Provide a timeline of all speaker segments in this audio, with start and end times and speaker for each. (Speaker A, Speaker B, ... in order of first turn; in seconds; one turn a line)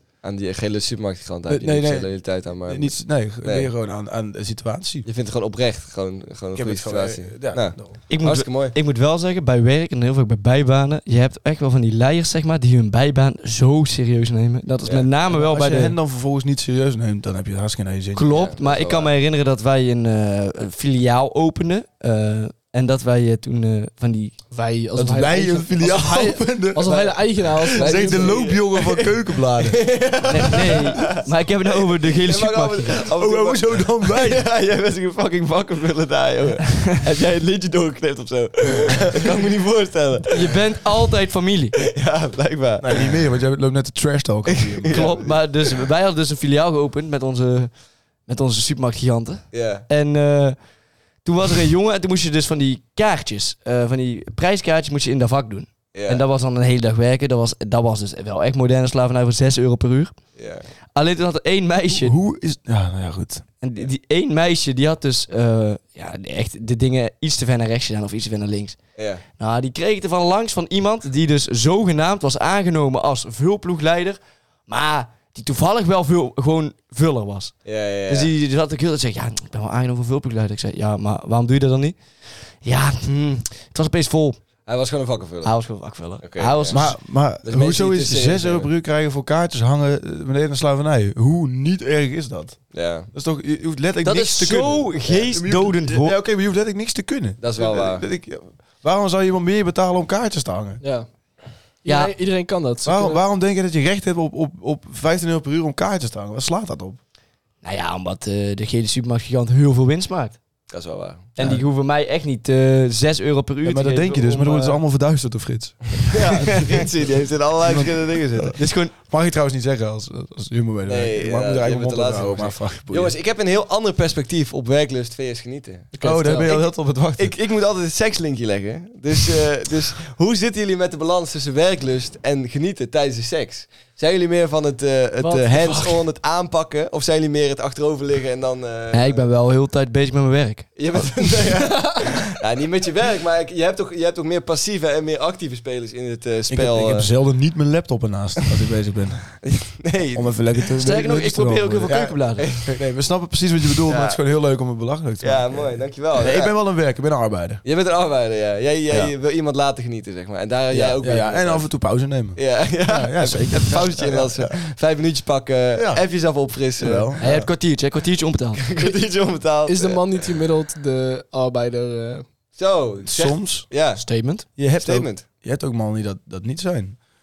Speaker A: 0.2-3.7
Speaker B: 1.5-5.1
Speaker A: 5.0-8.7
Speaker B: 6.5-8.0
Speaker C: 8.1-15.9
Speaker B: 15.3-18.3
Speaker C: 18.1-24.4
Speaker A: 18.3-19.1
Speaker D: 24.5-28.5
Speaker B: 24.9-29.9
Speaker A: 26.8-27.1
Speaker A: 27.7-31.3
Speaker C: 30.2-33.0
Speaker A: 31.9-40.6
Speaker B: 33.0-34.4
Speaker C: 40.3-41.8
Speaker A: 41.9-43.1
Speaker B: 42.8-45.3
Speaker A: 44.5-45.4
Speaker C: 44.9-47.7
Speaker C: 48.2-50.6
Speaker A: 49.5-49.8
Speaker C: 51.2-60.1
Speaker A: 55.9-56.2
Speaker A: 60.4-60.6
Speaker C: 60.9-62.1
Speaker B: 61.9-63.4
Speaker C: 63.6-68.8
Speaker A: 69.0-69.2
Speaker C: 69.4-82.0
Speaker A: 77.6-78.3
Speaker C: 82.6-84.4
Speaker A: 84.7-85.5
Speaker C: 85.4-86.9
Speaker A: 86.2-88.7
Speaker B: 86.7-100.8
Speaker A: 92.7-93.1
Speaker C: 94.0-96.2
Speaker A: 97.4-98.0
Speaker D: 100.8-101.1
Speaker D: 101.8-103.2
Speaker C: 101.8-102.1
Speaker B: 102.8-107.0
Speaker C: 107.6-110.4
Speaker A: 110.7-111.3
Speaker C: 111.4-114.8
Speaker B: 111.4-111.7
Speaker B: 113.6-116.6
Speaker A: 116.1-118.6
Speaker B: 117.6-123.1
Speaker C: 118.6-118.9
Speaker A: 120.9-139.2
Speaker D: 125.9-126.5
Speaker B: 126.0-127.3
Speaker D: 135.2-136.0
Speaker C: 138.9-140.8
Speaker A: 140.8-147.1
Speaker B: 146.5-149.4
Speaker A: 149.4-150.4
Speaker B: 150.1-157.6
Speaker C: 150.8-152.5
Speaker A: 152.4-152.7
Speaker A: 153.9-154.2
Speaker A: 155.2-156.5
Speaker A: 157.6-161.7
Speaker B: 160.7-164.5
Speaker A: 162.3-167.4
Speaker B: 165.7-166.0
Speaker B: 166.8-167.4
Speaker C: 167.2-168.6
Speaker A: 168.6-170.0
Speaker D: 169.6-172.2
Speaker A: 172.6-174.0
Speaker B: 173.0-173.7
Speaker C: 174.0-174.5
Speaker B: 174.6-177.0
Speaker A: 174.8-175.2